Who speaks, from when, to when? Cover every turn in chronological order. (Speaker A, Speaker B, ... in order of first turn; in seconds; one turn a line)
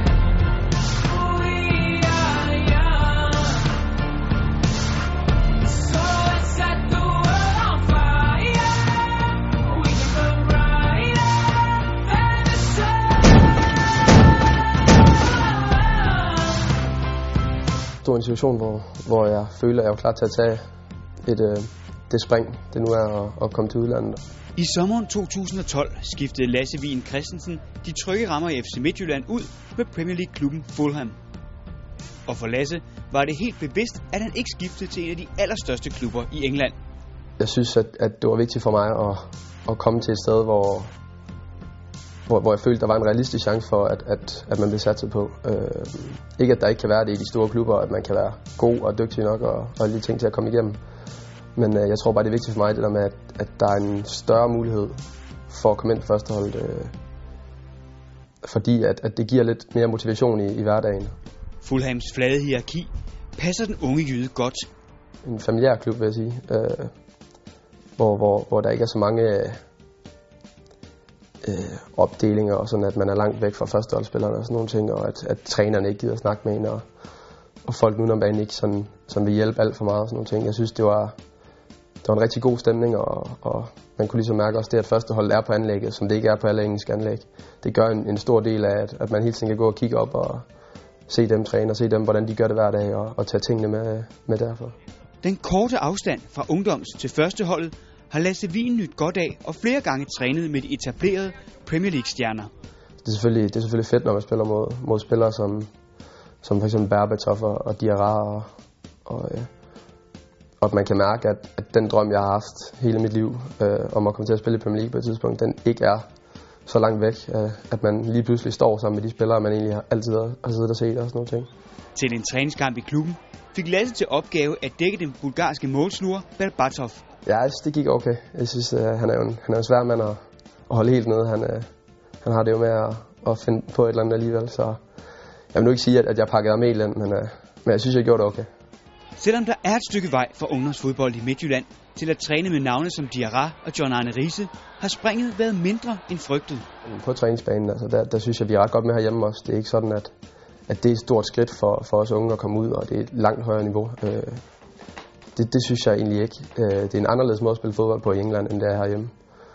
Speaker A: 1.1-3.6
Speaker A: 5.7-13.0
Speaker B: 18.0-20.6
Speaker B: 21.2-24.2
Speaker A: 24.6-31.2
Speaker A: 32.2-36.7
Speaker B: 37.4-40.9
Speaker B: 42.3-50.8
Speaker B: 51.5-56.9
Speaker B: 58.4-61.1
Speaker A: 61.6-64.7
Speaker B: 65.2-66.9
Speaker B: 68.0-69.6
Speaker B: 71.4-76.8
Speaker B: 77.6-81.1
Speaker B: 82.0-90.4
Speaker B: 91.1-94.7
Speaker A: 95.2-102.5
Speaker B: 103.0-105.7
Speaker B: 106.4-108.5
Speaker B: 109.0-109.5
Speaker B: 110.6-116.0
Speaker B: 116.7-121.5
Speaker A: 121.9-127.0
Speaker B: 127.2-130.2
Speaker B: 130.7-131.7
Speaker B: 132.2-134.8
Speaker B: 135.5-138.5
Speaker A: 139.2-146.7
Speaker B: 146.8-150.1
Speaker B: 150.7-154.4
Speaker B: 155.3-159.1